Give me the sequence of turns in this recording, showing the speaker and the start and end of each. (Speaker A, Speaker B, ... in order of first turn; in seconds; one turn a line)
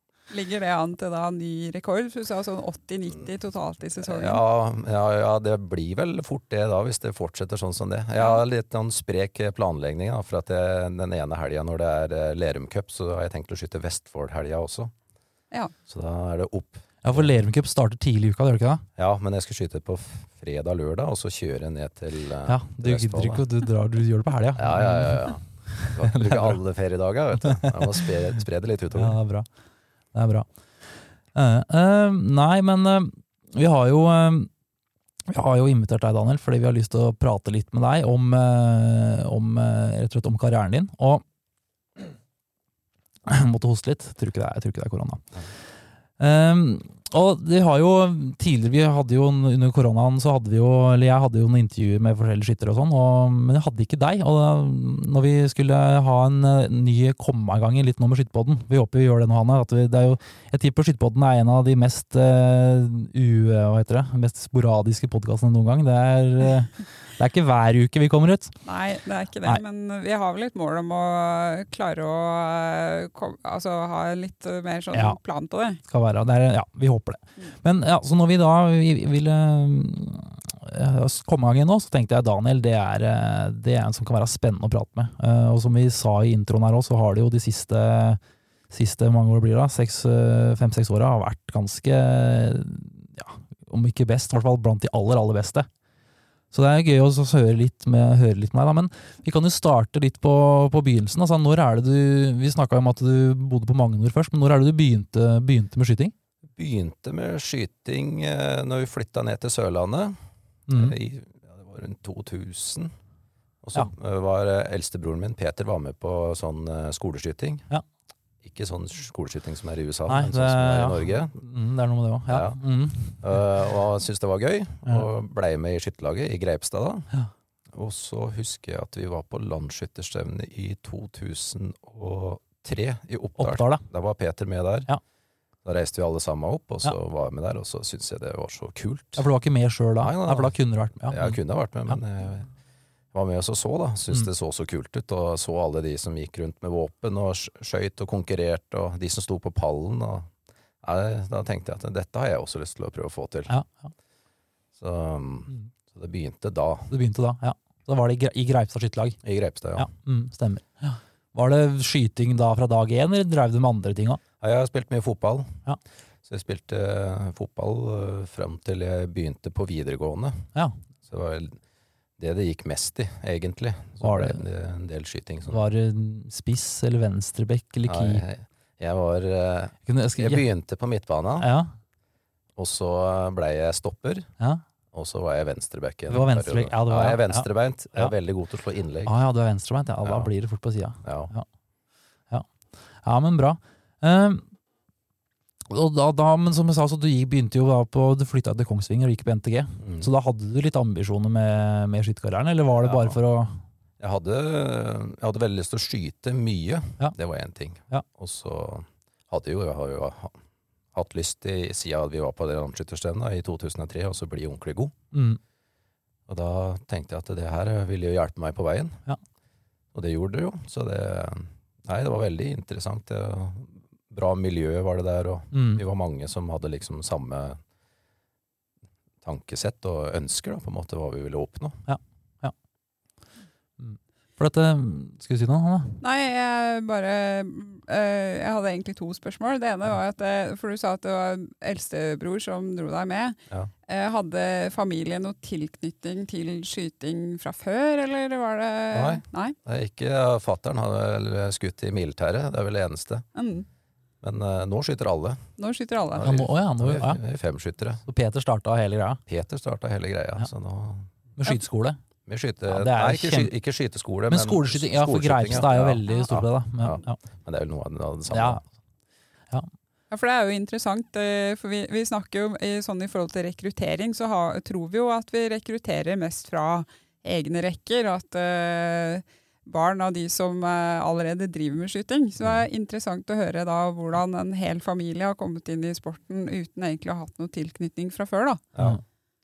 Speaker A: 0.3-4.4
Speaker B: 4.0-14.9
Speaker B: 15.9-17.3
Speaker C: 17.0-18.8
Speaker B: 19.0-23.4
Speaker C: 22.4-26.6
Speaker B: 24.6-29.2
Speaker C: 27.4-28.1
Speaker C: 28.9-29.5
Speaker C: 30.1-30.5
Speaker C: 31.3-34.5
Speaker C: 35.3-41.2
Speaker C: 43.3-45.2
Speaker C: 46.2-68.6
Speaker A: 68.6-75.8
Speaker C: 74.9-75.2
Speaker C: 75.9-88.2
Speaker C: 88.7-95.7
Speaker C: 96.5-106.1
Speaker B: 106.5-110.2
Speaker C: 110.7-111.0
Speaker B: 110.7-112.9
Speaker B: 113.6-117.7
Speaker B: 118.4-121.4
Speaker C: 120.1-123.4
Speaker B: 122.3-122.6
Speaker B: 123.2-127.1
Speaker B: 127.7-134.9
Speaker C: 133.4-133.8
Speaker B: 135.6-139.2
Speaker C: 139.2-141.9
Speaker B: 140.0-142.5
Speaker B: 143.1-150.3
Speaker B: 150.8-153.5
Speaker C: 153.5-153.9
Speaker B: 154.8-156.9
Speaker C: 156.9-159.2
Speaker B: 159.2-159.9
Speaker C: 159.8-164.2
Speaker B: 164.4-165.6
Speaker B: 166.2-170.5
Speaker B: 171.0-171.6
Speaker B: 172.2-175.6
Speaker C: 174.0-174.4
Speaker C: 175.5-178.2
Speaker B: 177.9-181.5
Speaker C: 179.8-180.4
Speaker C: 181.4-181.7
Speaker B: 182.6-184.3
Speaker B: 184.9-189.1
Speaker C: 186.1-188.1
Speaker C: 189.0-191.5
Speaker B: 190.0-190.3
Speaker B: 191.0-191.3
Speaker C: 192.3-194.4
Speaker C: 195.7-203.6
Speaker B: 199.8-200.1
Speaker B: 202.8-203.2
Speaker B: 204.0-210.4
Speaker B: 210.9-214.9
Speaker C: 215.1-215.4
Speaker B: 216.3-219.0
Speaker B: 219.9-227.6
Speaker C: 225.5-225.8
Speaker B: 229.2-231.8
Speaker C: 231.9-232.5
Speaker C: 233.8-236.0
Speaker A: 236.0-249.6
Speaker B: 248.9-253.2
Speaker A: 253.3-253.7
Speaker B: 254.2-255.5
Speaker A: 255.6-256.4
Speaker B: 256.1-258.0
Speaker C: 256.2-257.2
Speaker C: 258.1-259.2
Speaker B: 259.3-261.1
Speaker C: 261.4-262.0
Speaker B: 262.3-268.6
Speaker C: 262.7-263.5
Speaker C: 264.3-267.2
Speaker C: 268.3-268.6
Speaker A: 270.1-288.6
Speaker B: 282.4-282.6
Speaker B: 288.7-289.0